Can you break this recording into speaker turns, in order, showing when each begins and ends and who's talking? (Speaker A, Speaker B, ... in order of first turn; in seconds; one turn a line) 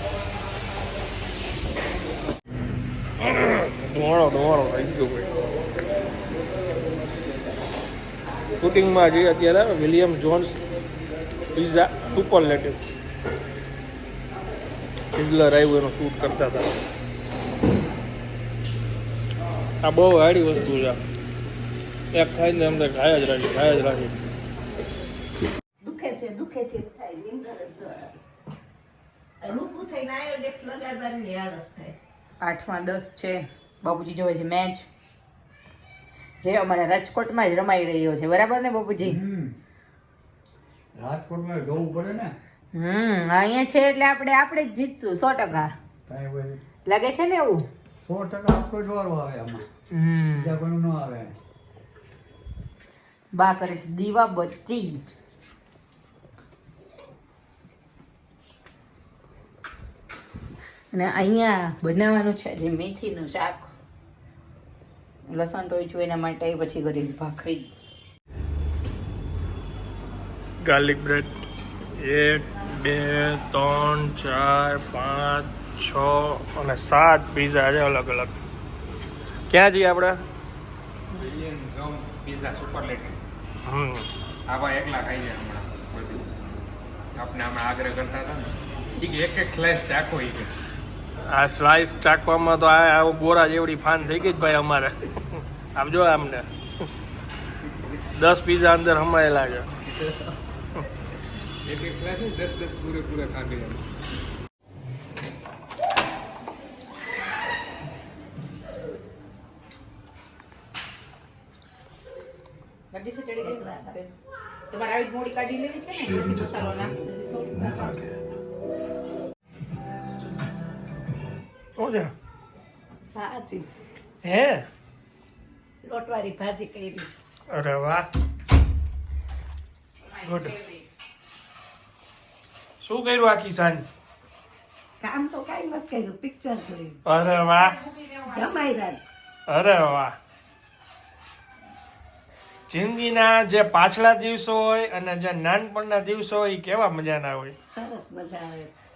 Speaker A: 3.2-5.3
Speaker A: 8.6-10.6
Speaker A: 11.5-12.8
Speaker A: 15.1-16.7
Speaker A: 19.8-21.0
Speaker A: 22.1-24.2
Speaker B: 25.8-28.1
Speaker B: 29.4-32.0
Speaker C: 32.4-34.9
Speaker C: 36.4-39.2
Speaker D: 39.0-39.5
Speaker D: 41.0-42.3
Speaker C: 42.7-45.7
Speaker D: 46.1-46.6
Speaker C: 46.9-47.7
Speaker D: 48.0-49.6
Speaker C: 49.9-50.5
Speaker D: 50.3-51.3
Speaker C: 53.4-55.0
Speaker C: 60.9-63.7
Speaker C: 65.3-67.7
Speaker A: 70.6-71.3
Speaker A: 72.0-78.3
Speaker A: 79.5-80.2
Speaker E: 81.1-83.2
Speaker A: 83.6-84.1
Speaker E: 84.5-86.3
Speaker E: 87.1-90.5
Speaker A: 91.3-96.5
Speaker A: 98.1-99.7
Speaker E: 101.6-103.8
Speaker C: 112.9-114.1
Speaker B: 113.4-114.0
Speaker C: 114.7-116.9
Speaker B: 116.9-118.2
Speaker A: 121.8-122.1
Speaker B: 123.1-123.7
Speaker A: 124.2-124.7
Speaker B: 125.8-127.2
Speaker A: 127.5-128.1
Speaker C: 130.0-130.9
Speaker A: 130.2-130.5
Speaker A: 132.8-133.8
Speaker B: 135.0-137.0
Speaker A: 137.1-137.8
Speaker C: 137.6-138.7
Speaker B: 138.3-139.1
Speaker A: 139.5-140.2
Speaker A: 142.7-147.5
Speaker B: 147.7-148.8